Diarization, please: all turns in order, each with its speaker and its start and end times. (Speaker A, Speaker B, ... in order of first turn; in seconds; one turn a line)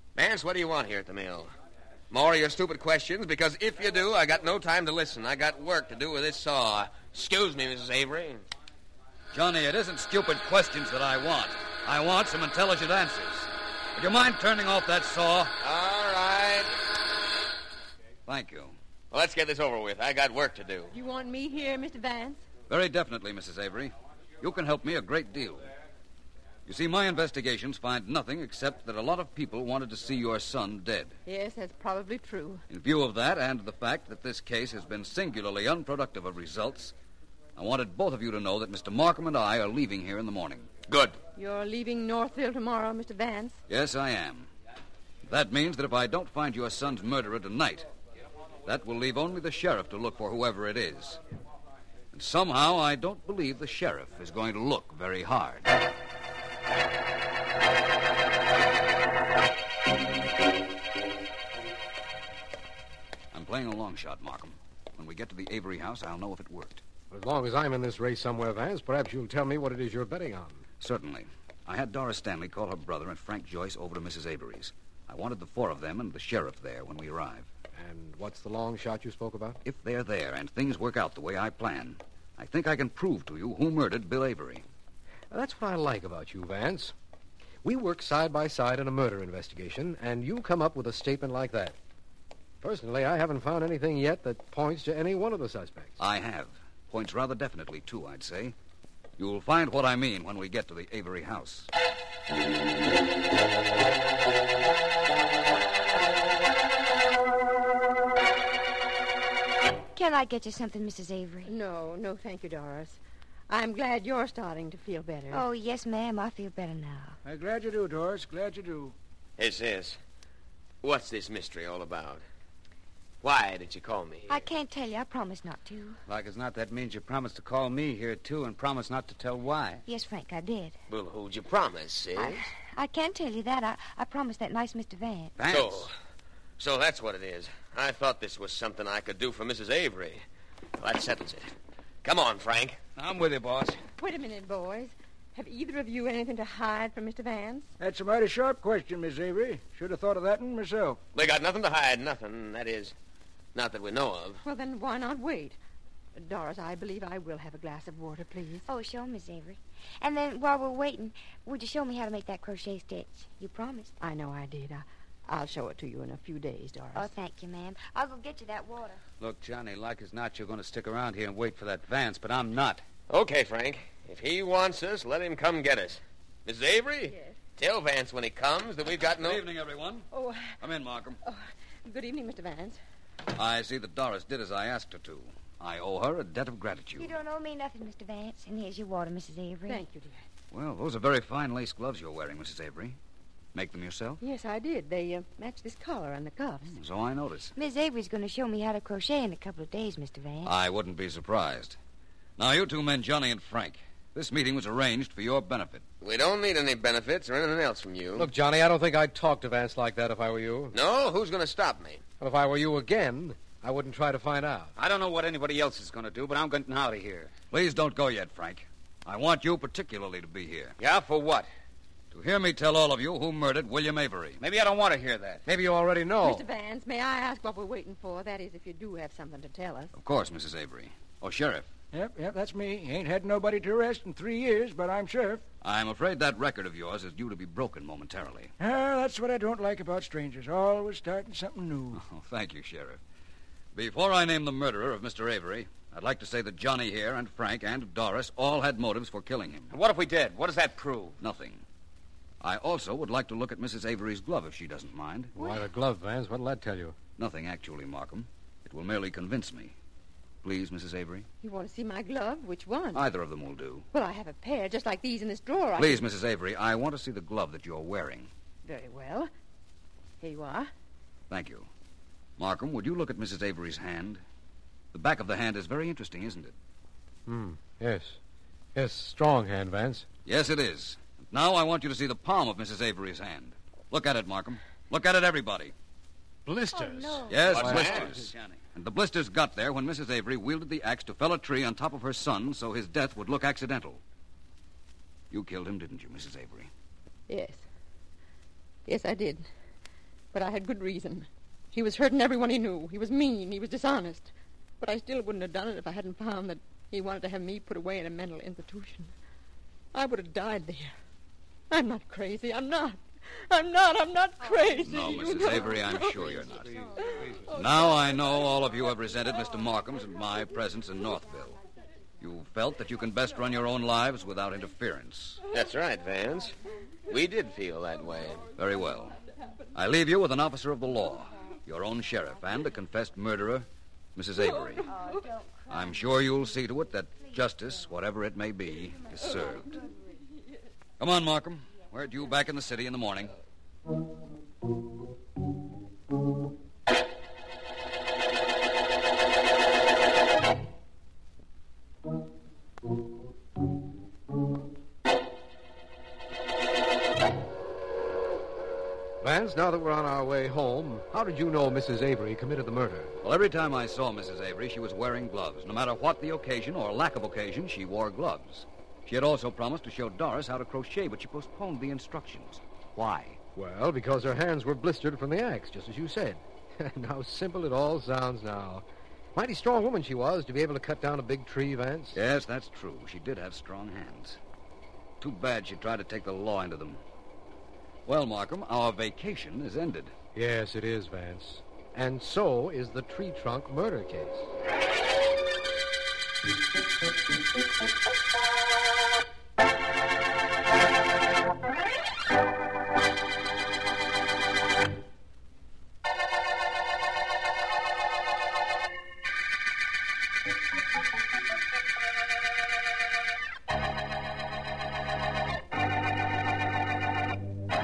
Speaker A: 0.1-1.5
Speaker A: 2.1-8.4
Speaker B: 9.3-15.5
Speaker A: 15.6-16.7
Speaker B: 18.2-18.7
Speaker A: 19.1-20.9
Speaker C: 20.9-22.4
Speaker B: 22.7-25.7
Speaker B: 26.6-31.2
Speaker C: 31.2-32.6
Speaker B: 32.7-36.9
Speaker B: 37.5-40.7
Speaker A: 40.9-41.2
Speaker C: 41.4-43.5
Speaker B: 43.7-44.5
Speaker B: 45.2-47.9
Speaker B: 48.6-51.2
Speaker B: 52.1-55.7
Speaker B: 63.3-66.8
Speaker D: 67.1-70.6
Speaker B: 70.8-77.5
Speaker D: 77.7-79.6
Speaker B: 79.6-84.6
Speaker D: 85.3-86.9
Speaker D: 87.6-91.8
Speaker D: 92.6-96.0
Speaker B: 96.0-98.5
Speaker B: 99.2-101.7
Speaker E: 109.9-111.5
Speaker C: 111.5-115.4
Speaker E: 115.3-117.2
Speaker F: 117.2-119.0
Speaker A: 119.4-120.0
Speaker A: 120.8-122.2
Speaker A: 123.2-124.5
Speaker E: 124.3-126.0
Speaker G: 126.1-129.8
Speaker E: 129.8-130.8
Speaker A: 130.9-132.5
Speaker E: 132.2-135.3
Speaker B: 135.4-135.9
Speaker A: 135.4-135.9
Speaker A: 136.6-140.2
Speaker A: 140.8-141.5
Speaker A: 142.0-142.8
Speaker G: 143.0-143.8
Speaker C: 144.0-147.7
Speaker F: 147.8-151.0
Speaker A: 151.1-152.9
Speaker A: 153.5-154.4
Speaker C: 154.4-155.6
Speaker C: 156.2-158.6
Speaker E: 158.7-163.9
Speaker C: 164.0-167.1
Speaker E: 166.9-169.0
Speaker G: 169.2-172.8
Speaker A: 173.1-179.4
Speaker C: 177.1-177.3
Speaker B: 179.2-180.1
Speaker C: 180.1-180.5
Speaker B: 180.6-181.2
Speaker C: 181.2-182.8
Speaker B: 183.3-187.1
Speaker E: 187.0-189.8
Speaker C: 189.7-190.2
Speaker B: 190.5-193.0
Speaker B: 193.5-194.2
Speaker C: 194.2-196.7
Speaker B: 196.7-197.5
Speaker E: 197.6-200.5
Speaker B: 200.4-201.8
Speaker B: 202.4-205.8
Speaker A: 206.0-208.3
Speaker D: 208.1-210.7
Speaker A: 210.7-212.0
Speaker D: 212.2-214.7
Speaker G: 214.8-217.3
Speaker B: 217.5-220.8
Speaker G: 220.8-221.5
Speaker B: 222.1-224.4
Speaker G: 224.4-225.4
Speaker D: 225.4-226.4
Speaker C: 226.2-229.9
Speaker B: 229.9-231.7
Speaker F: 231.9-235.4
Speaker B: 235.6-238.5
Speaker F: 238.6-242.0
Speaker B: 241.9-243.0
Speaker B: 243.7-249.7
Speaker G: 249.7-251.2
Speaker B: 251.2-251.6
Speaker B: 252.4-255.3
Speaker D: 255.3-256.9
Speaker B: 257.2-259.7
Speaker B: 260.4-261.3
Speaker C: 261.4-263.0
Speaker B: 262.9-263.9
Speaker C: 263.9-266.0
Speaker B: 265.8-268.3
Speaker C: 268.6-269.3
Speaker C: 270.2-270.7
Speaker B: 271.3-271.7
Speaker B: 272.4-274.2
Speaker B: 274.9-276.5
Speaker D: 277.2-278.2
Speaker D: 278.7-280.1
Speaker B: 280.2-285.7
Speaker D: 286.4-288.1
Speaker E: 286.7-287.4
Speaker B: 287.3-294.0
Speaker G: 287.4-288.3
Speaker A: 287.6-288.0
Speaker B: 295.3-296.7
Speaker C: 297.3-297.6
Speaker C: 298.9-299.5
Speaker C: 300.3-309.1
Speaker C: 309.9-310.9
Speaker C: 311.7-316.3
Speaker B: 314.8-316.8
Speaker B: 317.4-321.6
Speaker B: 322.2-325.4
Speaker A: 325.5-326.5
Speaker A: 327.1-328.4
Speaker B: 328.5-329.2
Speaker B: 329.7-334.9
Speaker E: 334.8-336.1
Speaker B: 335.7-339.8
Speaker E: 339.2-339.9
Speaker B: 341.0-343.3
Speaker D: 359.2-363.1
Speaker B: 363.2-373.4
Speaker D: 373.6-382.1
Speaker B: 382.1-384.4
Speaker B: 385.2-387.0
Speaker B: 388.1-390.1
Speaker D: 390.3-394.5